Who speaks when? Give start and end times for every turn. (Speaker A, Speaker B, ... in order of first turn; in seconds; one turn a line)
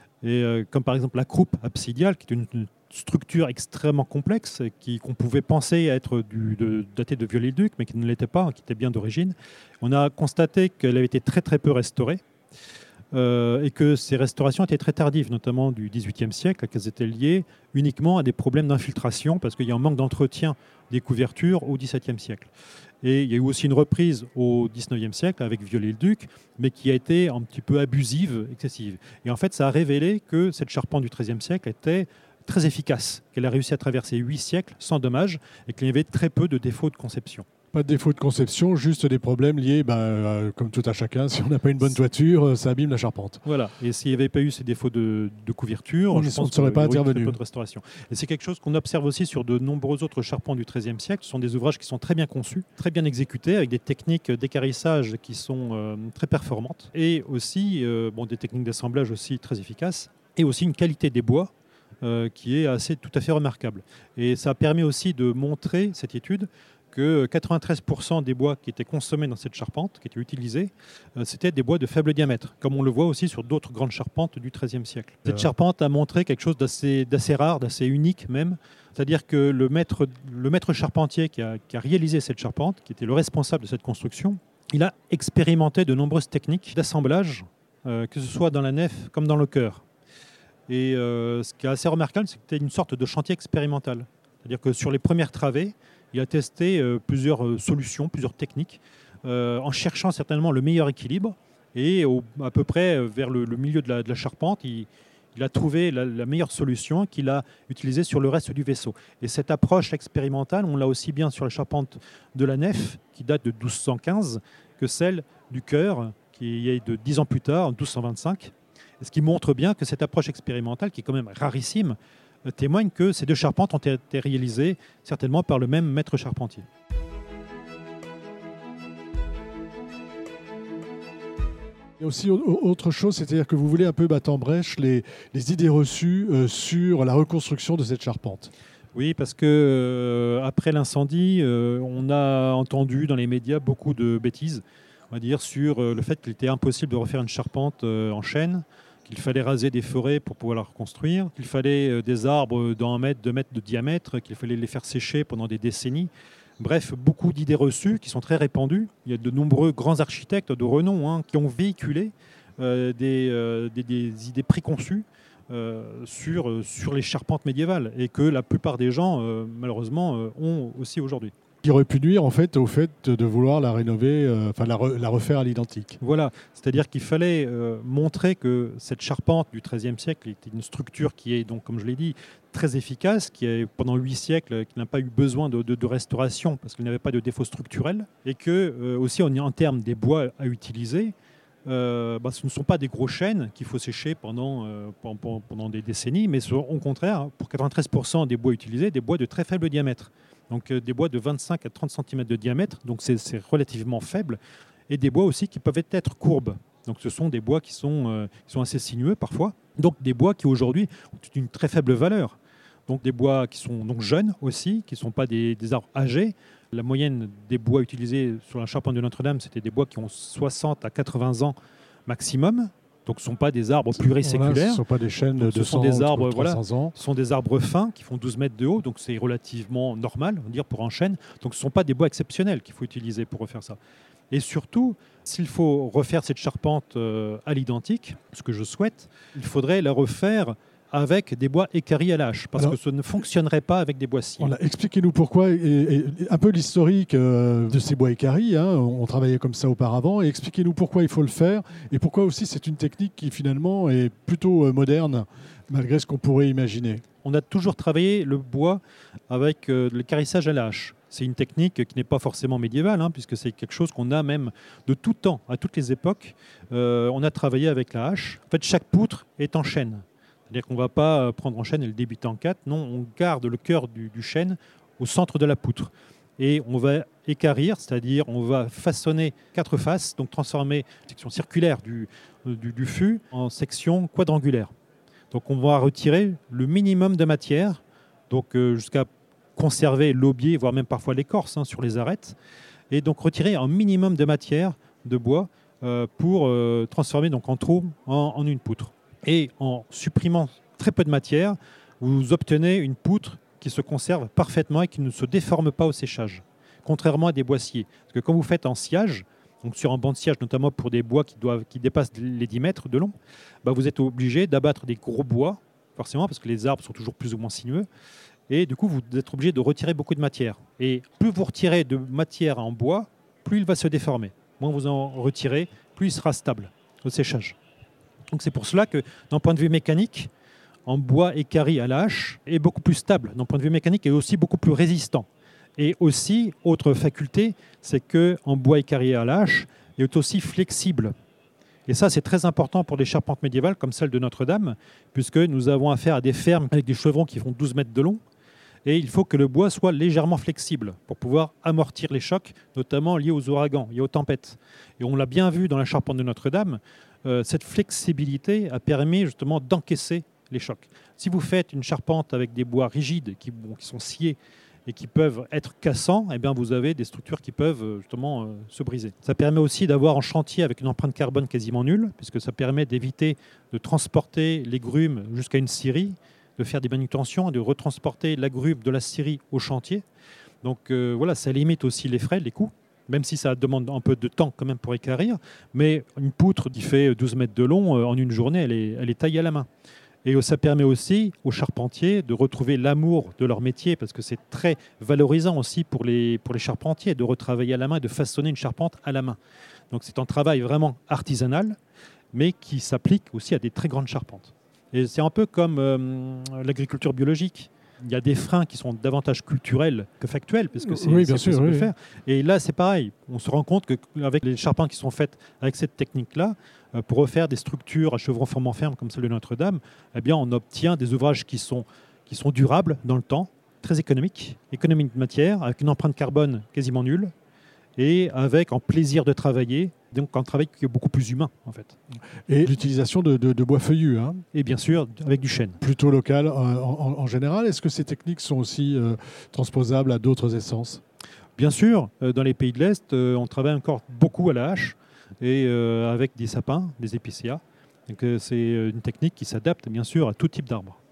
Speaker A: 0.2-12.2
Speaker A: 13.1-22.5
Speaker A: 23.0-37.5
Speaker B: 37.7-43.4
Speaker A: 43.4-89.8
Speaker B: 46.1-47.4
Speaker A: 90.7-126.7
Speaker B: 132.0-138.5
Speaker A: 138.9-171.3
Speaker B: 171.6-176.0
Speaker A: 176.0-191.2
Speaker A: 191.7-221.6
Speaker A: 222.1-224.8
Speaker B: 224.0-226.9
Speaker A: 225.4-233.8
Speaker A: 234.3-244.6
Speaker B: 244.4-257.0
Speaker A: 257.2-284.7
Speaker A: 285.3-292.4
Speaker A: 292.9-317.9
Speaker A: 318.5-327.6
Speaker A: 328.3-330.3
Speaker A: 330.9-341.1
Speaker A: 341.9-348.2
Speaker A: 348.9-380.1
Speaker A: 380.6-389.7
Speaker A: 390.2-399.4
Speaker A: 399.9-401.8
Speaker A: 402.3-427.3
Speaker B: 410.8-411.9
Speaker A: 428.0-432.0
Speaker B: 432.5-434.4
Speaker A: 434.5-435.8
Speaker B: 435.8-441.0
Speaker A: 441.6-451.0